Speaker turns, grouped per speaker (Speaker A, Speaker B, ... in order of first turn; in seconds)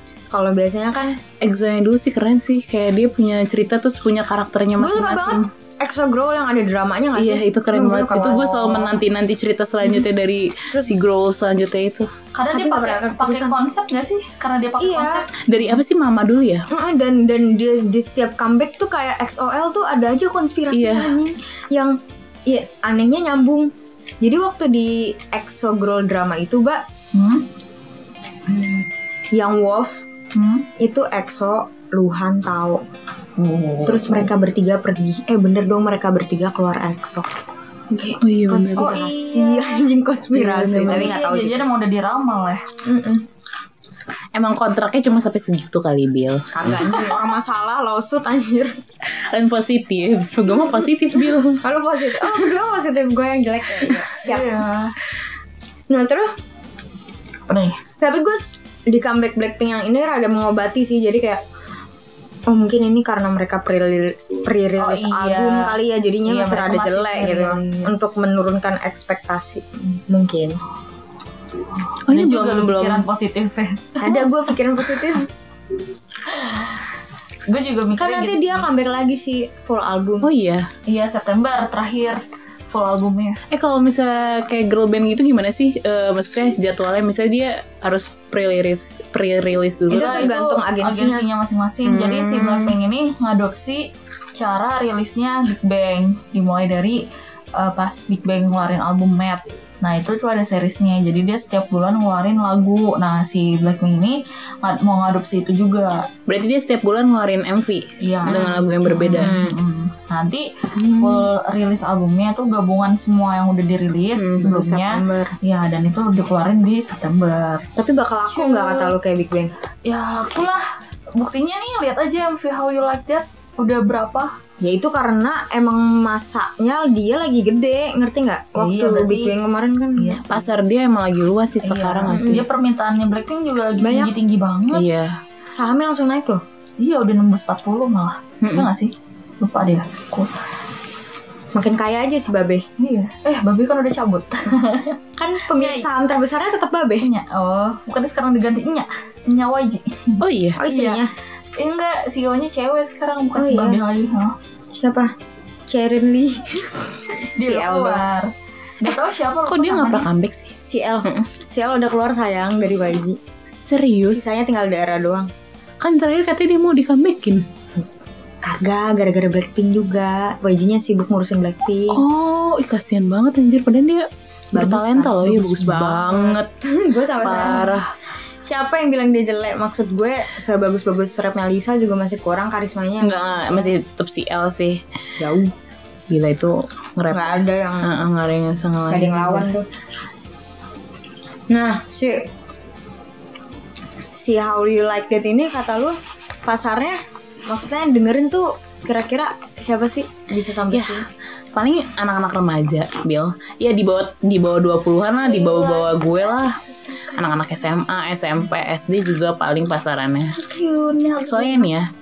Speaker A: 0.3-1.2, 4.8-8.8, 12.5-13.6, 14.8-15.2, 16.7-26.8, 29.3-30.0, 30.8-32.8, 33.8-37.3, 37.9-41.6, 42.8-43.2, 46.5-48.8, 51.6-54.6, 55.9-56.3, 58.0-61.4, 62.5-70.6, 74.0-75.3, 78.0-80.3, 89.9-91.2, 91.8-92.7, 109.1-109.6, 114.4-115.3, 117.8-119.5, 124.6-130.2, 132.1-132.4, 133.8-134.1, 135.5-136.4, 141.5-142.7, 145.2-147.1, 150.6-151.1, 153.3-153.8, 154.7-155.1, 155.7-158.0, 160.7-163.2, 164.1-165.3, 168.4-172.0, 174.5-177.7, 178.4-183.7, 185.2-185.5, 187.1-188.0, 188.9-189.7, 191.5-192.3, 194.2-201.0
Speaker B: 1.4-5.5, 7.1-12.1, 15.4-16.7, 20.7-21.2, 38.1-38.9, 40.3-41.2, 44.3-46.5, 49.1-51.6, 72.1-73.1, 80.2-80.7, 83.5-90.3, 106.3-109.3, 110.8-111.3, 114.2-114.5, 130.3-132.4, 134.7-135.2, 138.4-138.7, 150.2-150.6, 158.9-160.5, 163.5-164.3, 165.8-167.4, 171.9-176.5, 177.2-177.9, 183.0-184.8, 186.1-189.5, 200.7-206.6, 207.1-210.4, 211.3-211.9
Speaker C: 8.1-8.9, 12.3-15.3, 27.1-27.5, 30.3-30.7, 33.4-34.3, 38.8-39.9, 40.8-42.6, 54.2-54.9, 57.5-57.8, 64.8-68.2, 72.1-74.3, 76.2-76.8, 77.5-78.7, 80.8-83.4, 89.9-97.0, 97.5-106.1, 108.0-117.6, 118.3-119.0, 119.8-120.6, 121.2-124.3, 128.6-129.3, 129.9-130.5, 131.6-134.9, 136.8-140.3, 142.8-145.9, 147.0-151.0, 151.5-154.3, 157.3-160.1, 175.2-176.1, 205.2-207.5, 210.3-211.7